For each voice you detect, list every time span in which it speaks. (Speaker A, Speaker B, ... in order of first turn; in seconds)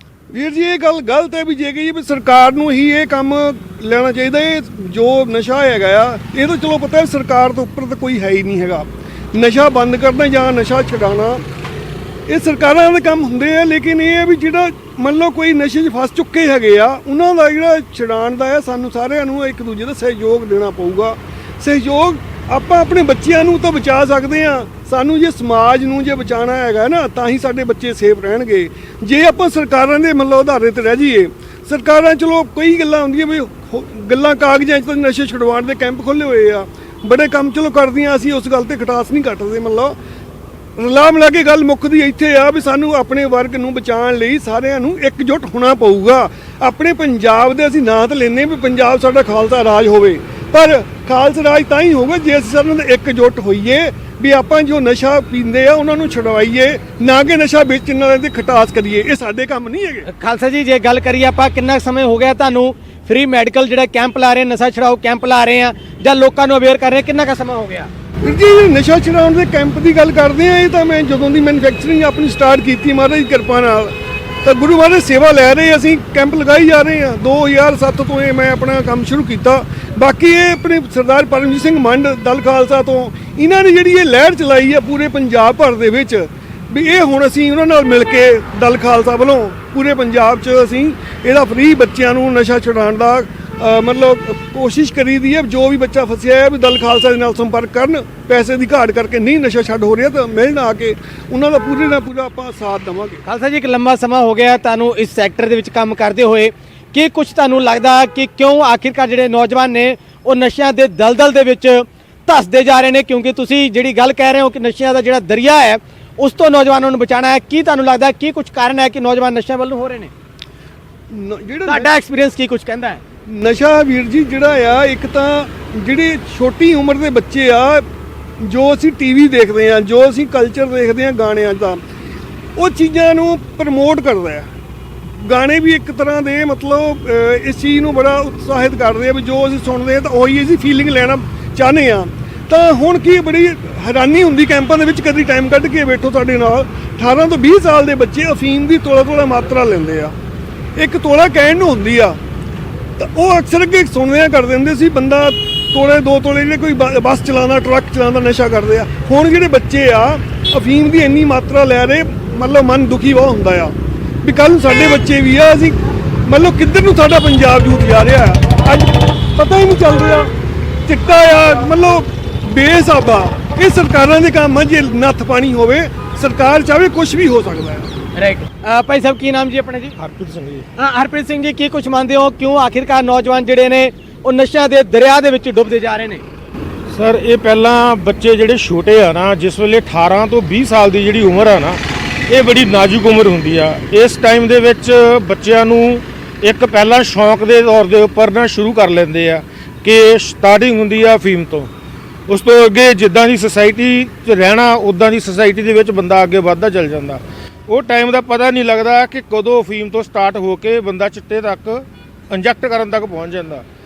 Speaker A: 0.3-11.4, 12.3-40.0, 40.8-60.1, 68.2-103.2, 121.1-121.9, 123.3-127.8, 128.4-131.8, 132.6-134.5, 135.1-150.1, 150.8-152.2, 153.0-170.3, 170.8-177.9
Speaker B: 60.1-67.9, 103.2-120.1, 121.7-123.0, 178.2-179.9, 180.8-186.2
Speaker C: 180.0-180.7, 186.9-201.7, 202.3-213.6